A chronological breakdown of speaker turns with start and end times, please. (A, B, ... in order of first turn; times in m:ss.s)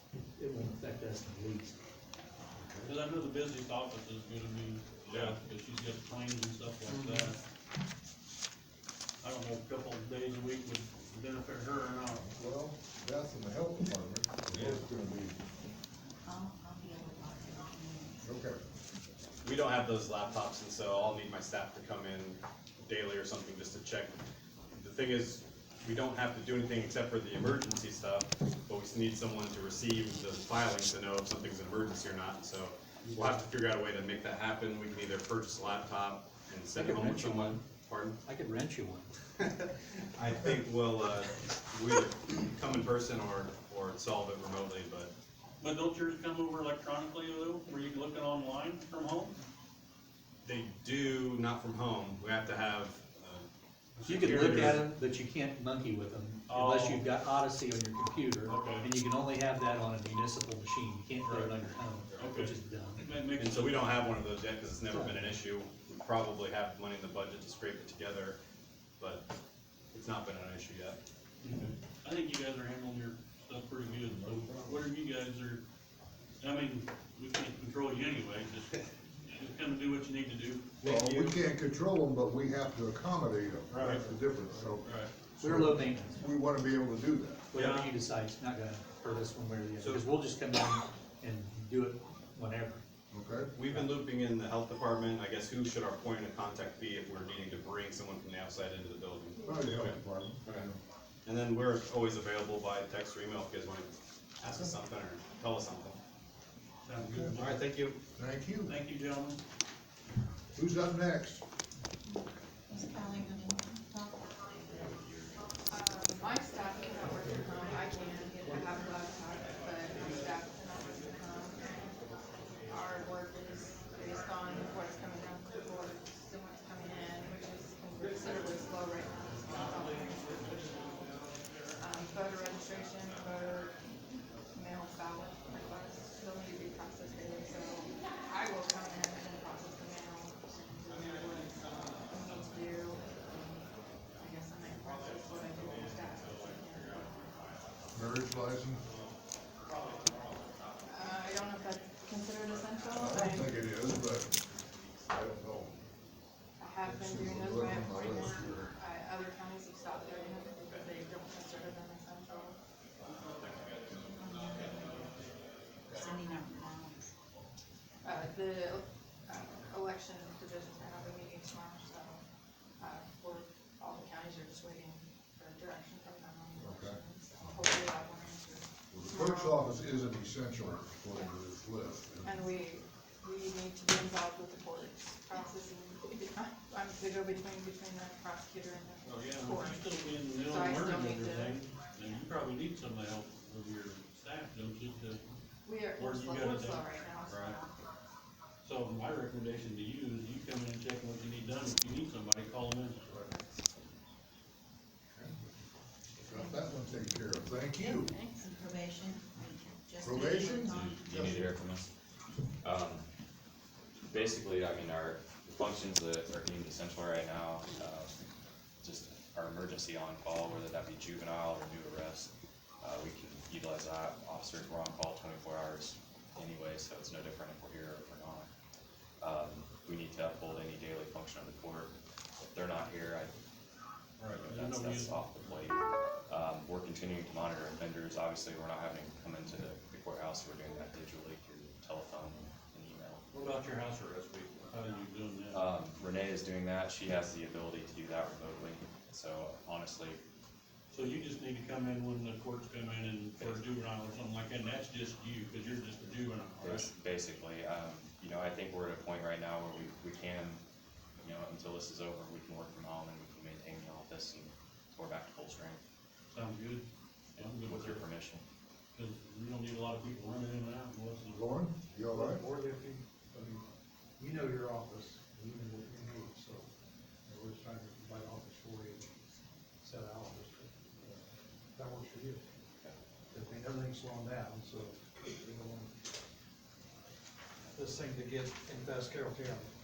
0:00.4-0:01.8 A
0:02.5-0:02.9 B
0:02.8-0:07.4 C
0:05.1-0:05.4 D
0:09.2-0:12.3 C
0:12.2-0:15.4 B
0:16.2-0:18.4 E
0:18.2-0:18.6 B
0:19.4-0:24.2 D
0:24.7-0:38.2 D
0:33.0-0:33.4 A
0:36.7-0:37.6 A
0:38.2-0:39.1 A
0:39.4-0:45.1 D
0:45.6-0:49.4 C
0:50.4-0:54.8 D
0:54.0-1:03.1 A
0:54.1-0:54.8 C
0:56.5-0:57.1 C
0:58.5-0:58.9 C
1:01.2-1:01.5 C
1:02.1-1:02.4 D
1:02.2-1:04.1 C
1:03.4-1:08.4 D
1:04.9-1:05.3 A
1:09.0-1:09.2 D
1:09.9-1:11.0 D
1:11.4-1:15.6 C
1:14.2-1:14.8 B
1:16.4-1:18.8 C
1:19.3-1:20.8 C
1:20.8-1:27.4 B
1:20.8-1:21.4 D
1:23.7-1:24.0 C
1:24.8-1:25.1 C
1:25.4-1:26.2 A
1:27.5-1:32.8 A
1:27.5-1:27.9 C
1:33.1-1:33.5 B
1:33.5-1:40.7 D
1:39.4-1:40.8 B
1:41.2-1:46.0 D
1:46.8-1:47.6 C
1:47.0-1:47.4 B
1:47.4-1:48.0 D
1:48.2-1:48.7 B
1:48.6-1:49.4 C
1:50.5-1:51.4 B
1:52.0-1:54.4 E
1:54.4-1:55.2 F
1:55.7-2:02.0 G
2:02.6-2:11.2 G
2:11.8-2:13.8 G
2:14.5-2:27.4 G
2:25.7-2:26.4 D
2:27.9-2:28.8 B
2:29.6-2:30.4 D
2:30.8-2:33.6 G
2:32.9-2:34.4 B
2:35.1-2:35.8 B
2:36.6-2:42.6 G
2:36.9-2:38.7 B
2:44.0-2:45.1 E
2:45.9-2:47.1 E
2:48.0-2:52.2 G
2:52.8-2:59.7 G
2:56.6-2:57.6 B
2:58.9-3:02.4 B
3:02.2-3:11.6 G
3:09.0-3:15.2 C
3:15.6-3:17.9 G
3:16.0-3:17.6 C
3:18.6-3:23.0 C
3:23.1-3:23.3 B
3:26.2-3:28.2 B
3:26.3-3:26.8 E
3:27.8-3:31.5 E
3:30.0-3:31.5 B
3:30.4-3:31.0 C
3:31.0-3:31.9 F
3:32.6-3:33.0 F
3:34.0-3:38.1 F
3:38.8-3:48.5 F
3:49.2-3:53.4 F
3:54.2-3:55.4 C
3:54.2-4:03.2 F
4:03.3-4:05.6 C
4:05.5-4:10.2 F
4:10.9-4:16.9 C
4:16.6-4:20.6 F
4:21.2-4:25.8 F
4:26.3-4:26.8 C
4:27.4-4:28.0 C
4:27.4-4:28.4 F
4:28.9-4:31.4 C
4:31.3-4:32.4 B
4:32.1-4:33.6 H
4:34.2-4:36.6 H
4:37.3-4:39.1 H
4:39.8-4:41.2 H
4:41.7-4:42.4 H
4:43.3-4:45.9 H
4:47.7-4:49.7 H